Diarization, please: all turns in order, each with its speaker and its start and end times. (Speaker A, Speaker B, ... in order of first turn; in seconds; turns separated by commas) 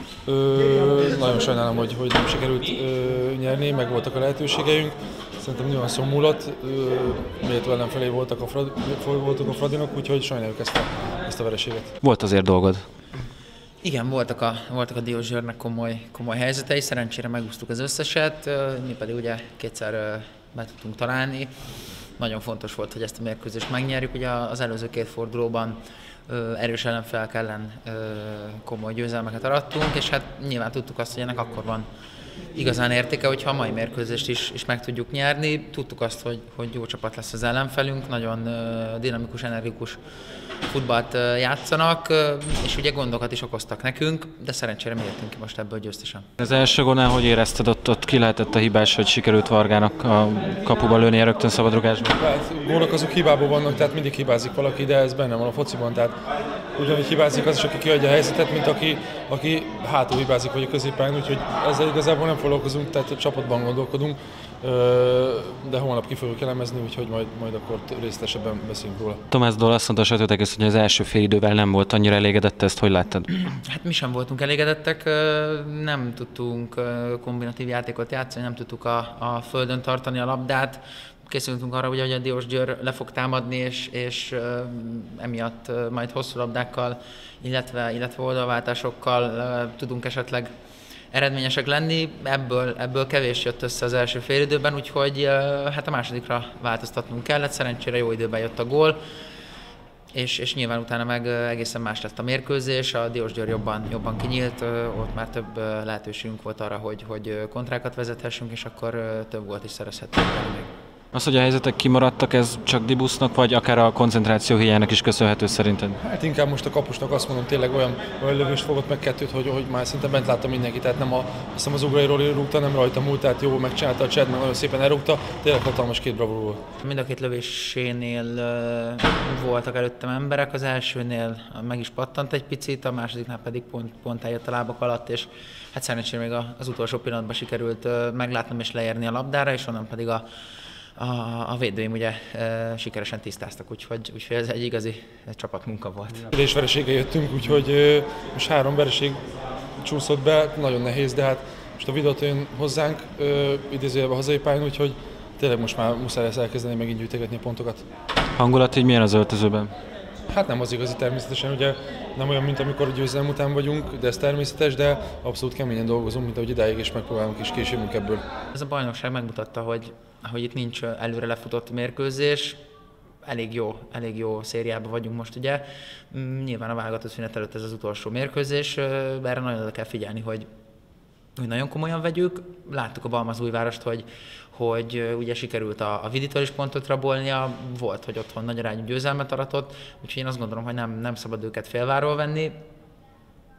Speaker A: 0.2-11.9, Speaker B: 12.0-12.8, Speaker C: 13.8-21.5, Speaker C: 22.1-31.9, Speaker C: 32.5-40.0, Speaker C: 40.6-46.3, Speaker B: 46.4-52.2, Speaker A: 52.2-56.1, Speaker A: 56.7-69.2, Speaker B: 69.3-73.3, Speaker C: 73.3-90.5, Speaker C: 91.1-99.0, Speaker C: 100.1-110.7, Speaker B: 111.1-116.0, Speaker A: 116.0-126.6, Speaker C: 126.8-140.3, Speaker C: 140.9-146.3, Speaker A: 146.3-149.2, Speaker A: 149.8-157.8, Speaker B: 158.3-159.7, Speaker A: 160.3-168.2, Speaker C: 168.5-172.6, Speaker C: 173.2-180.5, Speaker C: 181.3-192.6